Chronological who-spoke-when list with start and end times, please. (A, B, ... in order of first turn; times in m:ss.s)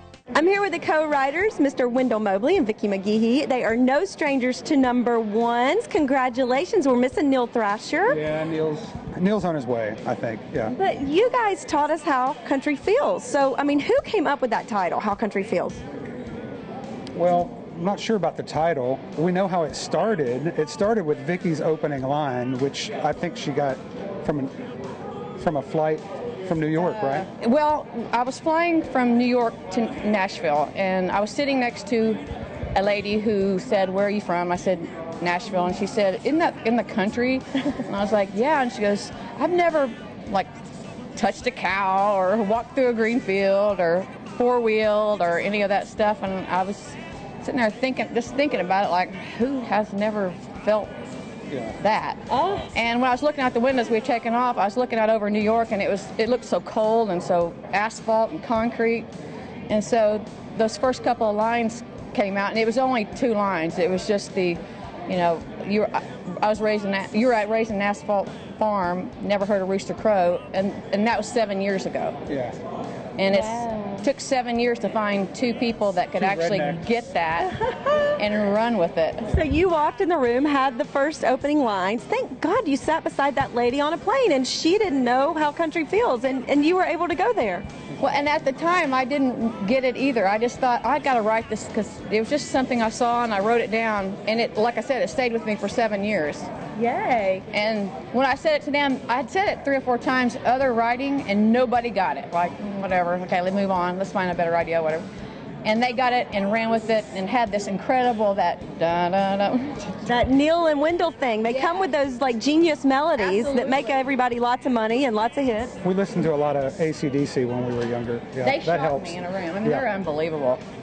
0:00.3-0:08.2 A
0:08.1-0:10.7 B
0:10.7-0:15.8 A
0:17.2-0:24.6 B
0:25.4-0:27.3 B
0:27.0-0:32.2 C
0:32.7-0:40.5 C
0:41.2-0:50.9 C
0:51.5-0:51.8 B
0:51.8-0:59.1 C
0:52.3-0:52.7 A
0:59.7-1:12.2 C
1:12.3-1:12.6 B
1:13.2-1:17.5 C
1:13.3-1:14.0 A
1:16.2-1:16.8 B
1:17.6-1:18.2 A
1:18.2-1:19.3 C
1:19.3-1:27.7 A
1:28.0-1:36.5 C
1:36.8-1:37.4 A
1:37.5-1:45.1 C
1:45.6-1:50.0 C
1:50.0-1:55.8 A
1:53.2-1:54.0 C
1:55.8-1:59.9 B
1:58.4-2:00.6 C